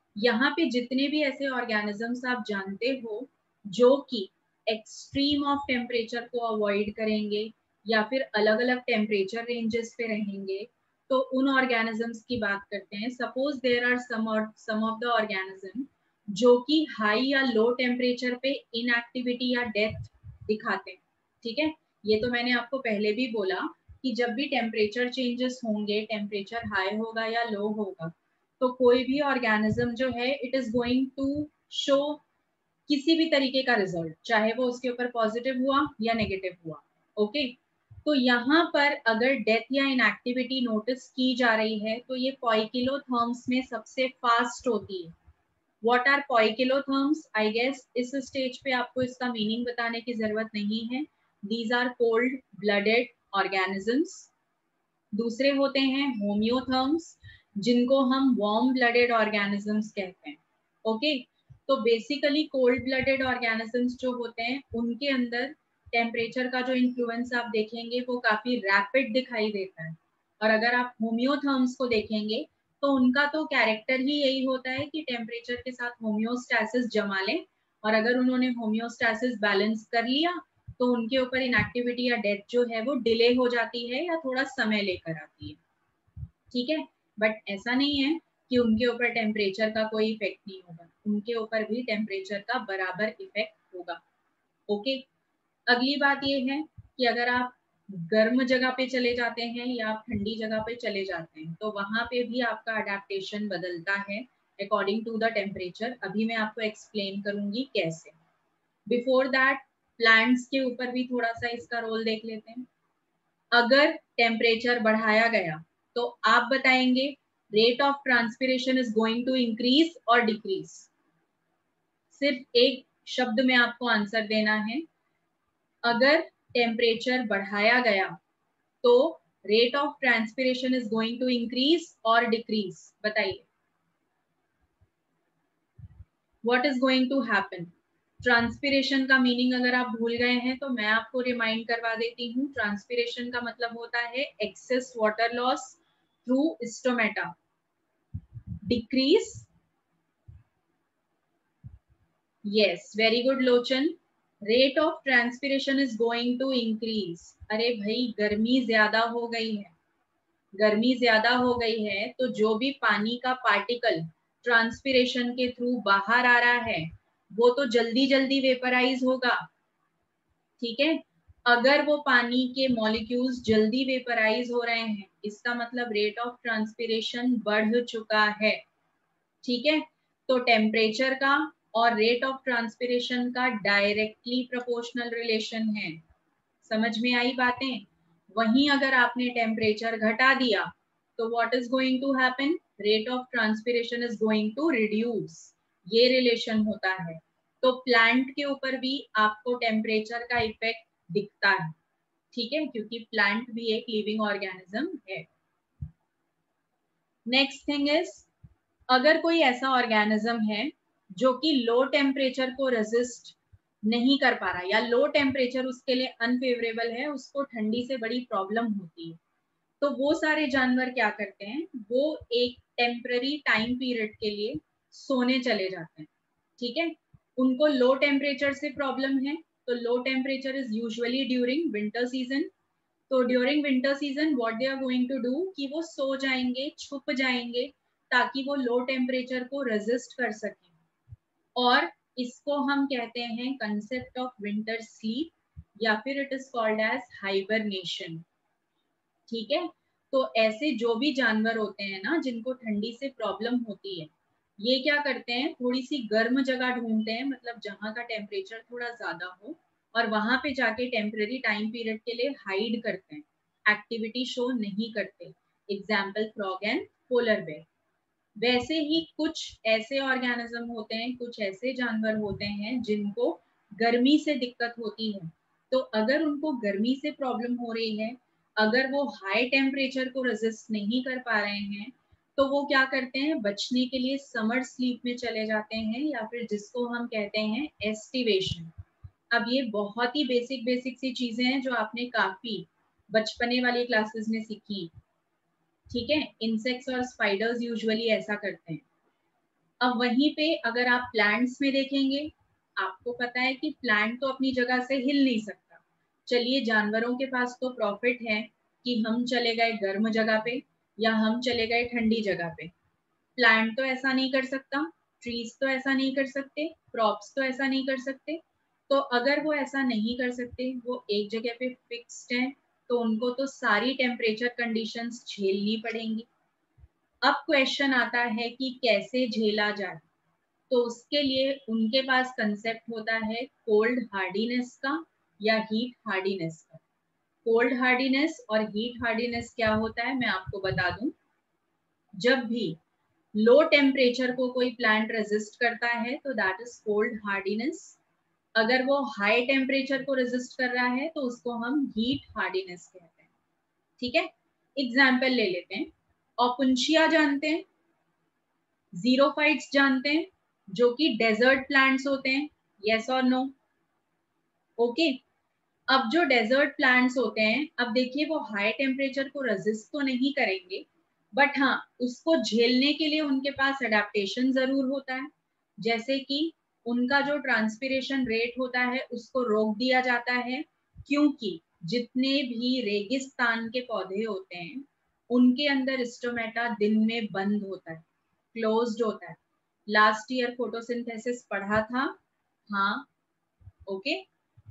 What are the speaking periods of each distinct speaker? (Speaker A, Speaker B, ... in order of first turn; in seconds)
Speaker A: 0.2-32.2, 32.9-45.1, 45.8-54.3, 55.1-85.6, 86.5-94.0, 94.7-95.0, 95.7-108.2, 108.9-112.7, 113.5-120.9, 122.1-124.8, 125.8-128.2, 128.8-133.5, 136.4-147.3, 148.6-149.5, 152.4-159.7, 160.6-169.4, 170.6-178.6, 179.4-186.0, 186.6-201.7, 202.3-205.3, 207.3-208.3, 208.9-219.2, 219.8-232.5, 233.1-240.7, 241.6-248.2, 249.3-267.7, 268.4-288.7, 289.3-294.9, 295.9-298.8, 299.8-312.7, 313.4-326.3, 327.2-330.1, 330.7-336.8, 337.4-341.1, 342.2-342.8, 343.4-348.0, 348.6-353.3, 354.0-357.6, 358.9-363.5, 364.8-365.2, 365.9-392.2, 392.7-393.1, 393.9-394.3